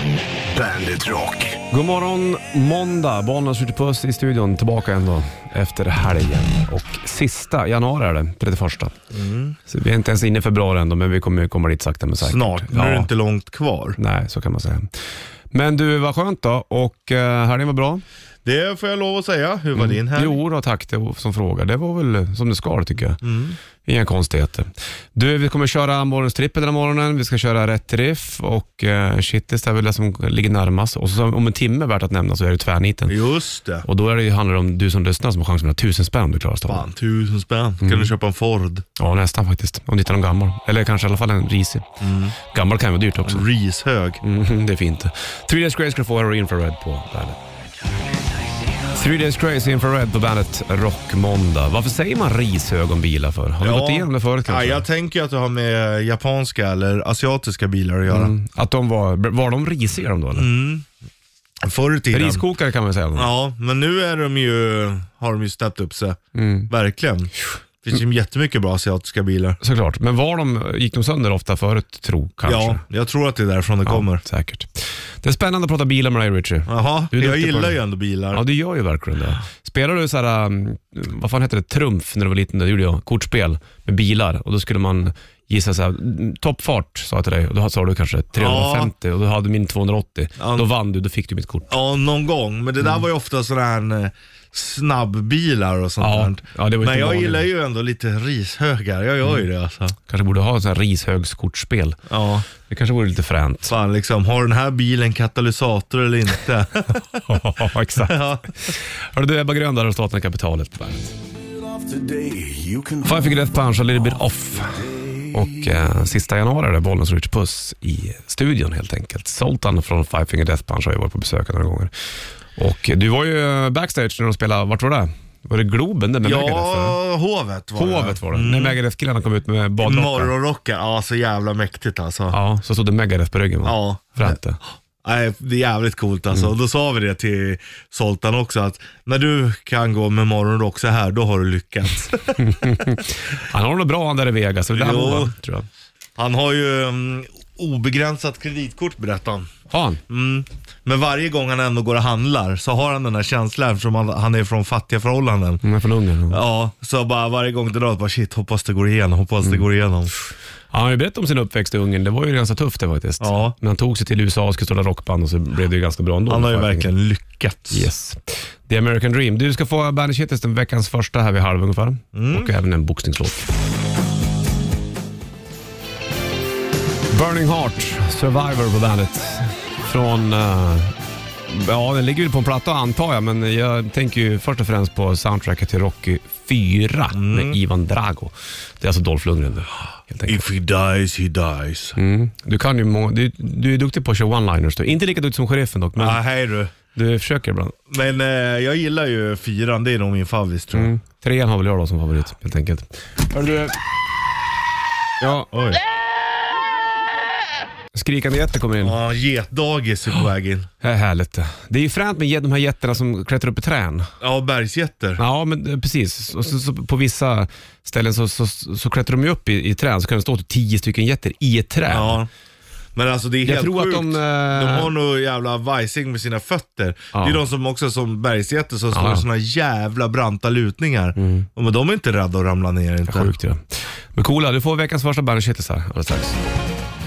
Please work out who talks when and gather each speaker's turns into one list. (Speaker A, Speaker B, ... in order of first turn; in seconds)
Speaker A: 0.5-1.6, 111.4-113.6, 114.6-115.7
Speaker B: 1.7-8.9, 9.7-13.1, 14.0-14.9, 15.5-18.0, 19.8-23.2, 23.8-33.2, 33.8-36.9, 37.8-38.1, 39.0-43.5, 44.2-47.4, 48.9-54.9, 58.1-60.5, 62.1-63.3, 66.3-66.7, 69.6-72.8, 73.9-77.8, 78.3-91.7, 96.0-97.5, 100.1-103.8, 107.3-111.1, 113.0-121.9, 122.6-127.0, 127.8-130.3, 132.3-134.6, 142.4-145.7, 149.7-150.0, 155.6-156.4, 160.7-166.9, 167.7-173.5, 177.1-181.0, 181.5-190.5, 192.0-196.2, 196.9-197.8, 200.7-203.8, 205.2-205.5, 207.9-209.0, 210.8-214.1, 215.2-222.2, 223.4-224.9, 227.1-227.4, 228.9-229.3, 231.2-231.5, 233.1-236.4
Speaker C: 9.1-9.6, 12.2-14.0, 18.4-20.4, 23.2-23.6, 33.1-33.9, 36.7-38.9, 42.0-42.4, 43.2-44.2, 53.6-58.3, 60.3-60.9, 61.6-62.5, 63.1-69.6, 72.5-74.2, 76.7-78.4, 88.4-88.9, 90.4-90.7, 91.7-100.0, 102.1-102.5, 103.7-108.5, 126.2-128.8, 129.8-132.4, 133.6-134.4, 135.0-143.0, 144.8-145.3, 146.2-149.5, 150.1-155.6, 156.3-160.1, 163.2-163.6, 166.3-167.9, 172.1-172.5, 187.1-187.6, 190.3-192.0, 196.0-196.8, 197.9-200.9, 205.5-205.8, 208.8-210.7, 214.2-215.2, 221.9-222.3, 222.9-233.3